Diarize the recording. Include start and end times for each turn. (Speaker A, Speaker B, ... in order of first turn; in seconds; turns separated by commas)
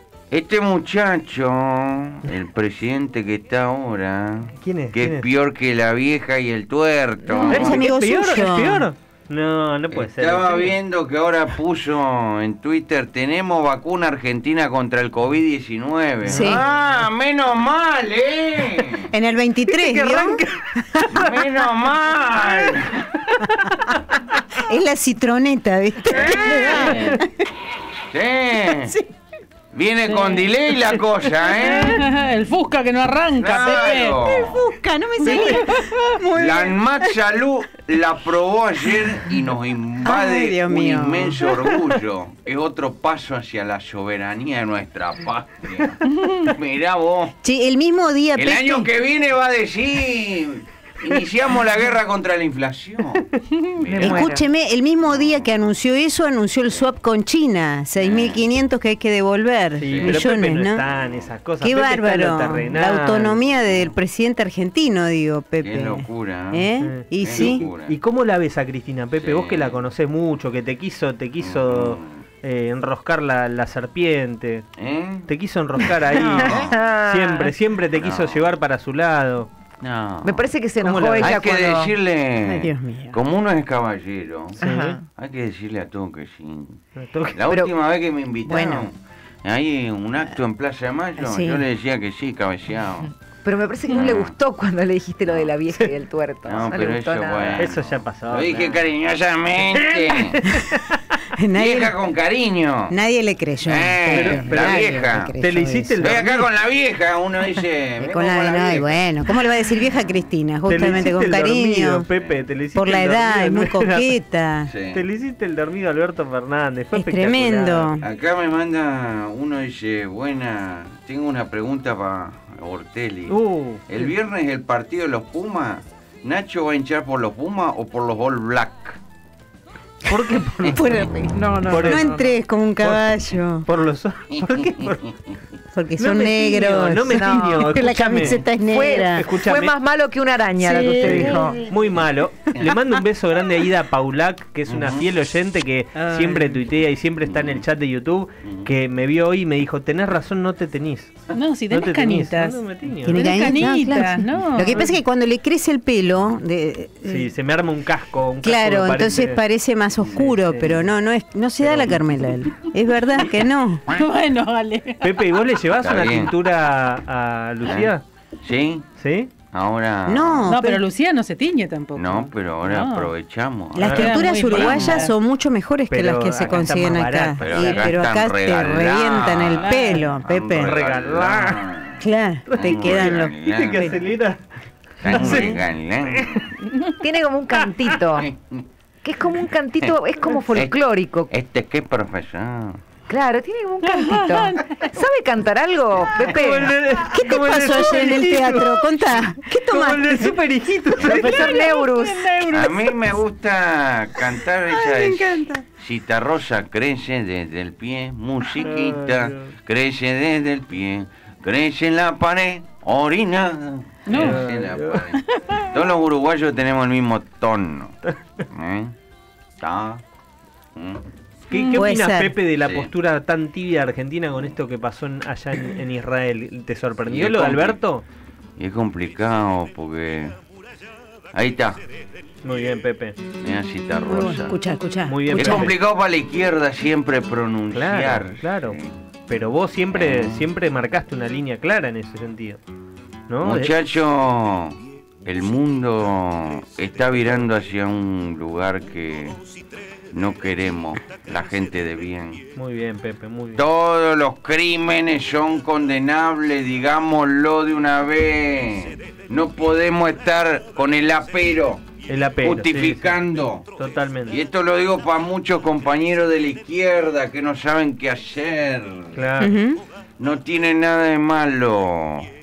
Speaker A: 0.3-7.8, Speaker B: 4.6-5.2, Speaker C: 7.3-7.6, Speaker D: 7.5-8.8, Speaker B: 7.5-10.8, Speaker A: 9.9-19.1, Speaker B: 16.2-16.6, Speaker D: 16.3-16.6, Speaker D: 19.1-20.4, Speaker A: 21.1-23.1, Speaker D: 24.6-27.3, Speaker E: 26.5-27.1, Speaker A: 26.5-27.0, Speaker A: 28.1-28.9, Speaker A: 29.7-32.0, Speaker E: 30.1-30.5, Speaker E: 31.6-34.3, Speaker A: 33.4-34.6, Speaker D: 33.6-37.1, Speaker A: 35.3-35.6, Speaker E: 35.3-35.8, Speaker A: 36.3-47.3, Speaker D: 40.0-41.7, Speaker D: 47.4-48.9, Speaker A: 48.3-54.3, Speaker C: 53.8-54.4, Speaker D: 54.0-60.8, Speaker A: 55.0-55.5, Speaker A: 58.0-58.4, Speaker B: 59.8-63.4, Speaker A: 59.9-60.3, Speaker A: 60.9-61.3, Speaker D: 61.6-67.6, Speaker A: 65.6-67.9, Speaker B: 66.8-74.7, Speaker A: 69.2-69.8, Speaker A: 71.4-72.2, Speaker A: 74.8-75.3, Speaker B: 75.3-79.5, Speaker D: 76.1-76.6, Speaker A: 76.5-76.7, Speaker C: 76.5-77.5, Speaker A: 78.0-78.4, Speaker A: 79.8-80.5, Speaker C: 80.2-81.9, Speaker B: 80.8-81.4, Speaker A: 81.2-86.8, Speaker D: 82.4-83.2, Speaker B: 84.6-85.0, Speaker C: 84.6-85.0, Speaker B: 87.0-87.4, Speaker A: 87.3-93.1, Speaker D: 88.5-88.9, Speaker D: 91.2-91.6, Speaker C: 93.4-97.6, Speaker A: 93.9-94.3, Speaker A: 96.5-100.5, Speaker B: 97.6-98.8, Speaker B: 99.7-101.0, Speaker D: 101.4-102.0, Speaker A: 101.5-102.9, Speaker D: 102.9-106.2, Speaker A: 103.6-105.3, Speaker B: 104.1-106.5, Speaker A: 106.0-109.0, Speaker D: 108.0-112.0, Speaker B: 110.7-114.1, Speaker A: 112.1-112.4, Speaker D: 112.7-114.7, Speaker A: 114.7-115.0, Speaker B: 114.9-117.9, Speaker D: 116.9-118.0, Speaker A: 118.0-123.4, Speaker B: 123.3-124.1, Speaker A: 123.9-129.0, Speaker B: 130.1-130.8, Speaker D: 130.6-133.6, Speaker C: 131.3-132.4, Speaker B: 131.7-132.1, Speaker B: 132.8-133.1, Speaker B: 133.6-135.0, Speaker A: 134.3-135.3, Speaker D: 135.7-139.2, Speaker B: 136.0-138.4, Speaker C: 137.1-137.7, Speaker C: 138.6-141.6, Speaker B: 139.1-139.7, Speaker E: 140.6-141.7, Speaker D: 140.8-141.6, Speaker B: 141.0-153.5, Speaker A: 144.7-145.1, Speaker E: 145.9-146.6, Speaker A: 147.3-147.6, Speaker A: 148.4-148.7, Speaker E: 151.3-155.0, Speaker D: 153.1-157.3, Speaker B: 157.1-159.4, Speaker D: 158.4-163.8, Speaker B: 160.1-160.8, Speaker B: 161.6-162.1, Speaker E: 163.9-165.2, Speaker B: 165.0-168.0, Speaker A: 165.8-166.3, Speaker A: 167.6-168.9, Speaker B: 169.0-169.3, Speaker A: 169.5-170.5, Speaker D: 170.1-170.8, Speaker E: 170.5-173.1, Speaker A: 171.9-175.1, Speaker D: 173.8-180.8, Speaker B: 173.8-174.3, Speaker E: 173.9-175.1, Speaker B: 175.9-177.9, Speaker A: 177.4-182.0, Speaker E: 179.6-180.1, Speaker B: 179.7-180.0, Speaker B: 180.6-181.7, Speaker D: 182.0-184.0, Speaker B: 182.5-184.4, Speaker A: 182.6-184.0, Speaker B: 185.0-186.4, Speaker A: 185.0-186.5, Speaker C: 187.0-188.3, Speaker A: 188.2-188.6, Speaker C: 189.0-191.3, Speaker A: 191.3-192.8, Speaker C: 193.1-196.7, Speaker E: 193.8-194.9, Speaker B: 196.2-201.6, Speaker D: 197.1-200.4, Speaker A: 201.0-201.3, Speaker C: 201.0-202.4, Speaker E: 201.2-202.9, Speaker A: 202.5-218.0, Speaker D: 204.7-205.6, Speaker B: 208.6-209.5, Speaker E: 214.1-214.4, Speaker B: 214.1-215.0, Speaker E: 215.1-215.7, Speaker A: 218.5-218.9, Speaker A: 219.6-220.0, Speaker A: 220.8-221.0, Speaker B: 221.5-228.0, Speaker D: 221.6-222.3, Speaker A: 222.6-222.9, Speaker A: 227.1-227.8, Speaker A: 228.6-230.3, Speaker A: 231.3-231.8, Speaker B: 232.4-233.2, Speaker A: 233.4-234.5, Speaker D: 234.0-235.7, Speaker B: 235.1-235.7, Speaker A: 235.3-238.9, Speaker B: 237.7-238.8, Speaker B: 239.3-242.6, Speaker A: 239.9-240.4, Speaker B: 243.3-243.7, Speaker A: 243.4-249.4, Speaker A: 250.1-252.4, Speaker B: 252.5-253.6, Speaker A: 253.5-261.9, Speaker B: 262.1-263.1, Speaker A: 262.4-263.7, Speaker B: 263.8-264.4, Speaker A: 264.3-269.1, Speaker B: 269.1-269.5, Speaker D: 269.4-269.8, Speaker A: 270.2-272.3